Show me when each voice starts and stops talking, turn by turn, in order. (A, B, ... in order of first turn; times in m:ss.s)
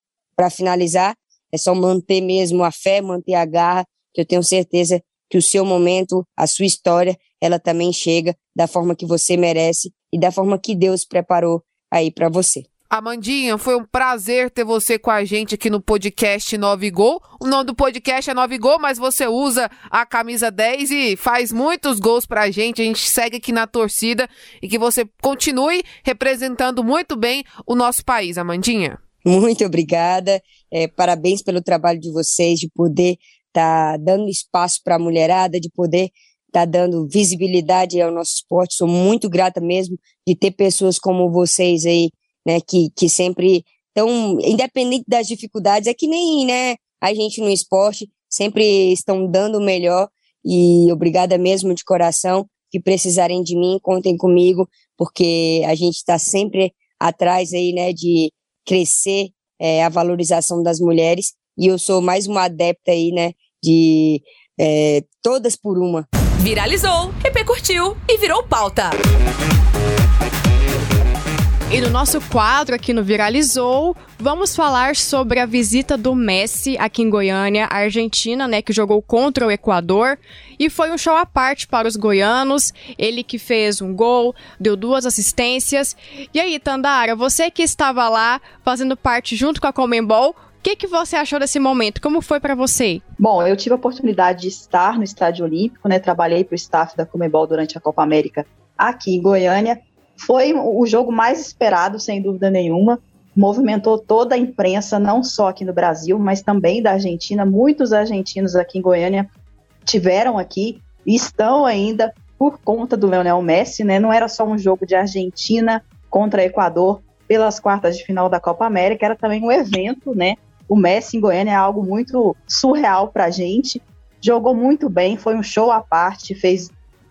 0:00.4-0:12.7 A
0:12.9-0:29.0 B
0:29.2-1:06.0 A
1:06.4-1:09.0 C
1:11.7-1:33.0 D
1:33.2-1:49.3 E
1:49.8-2:06.7 E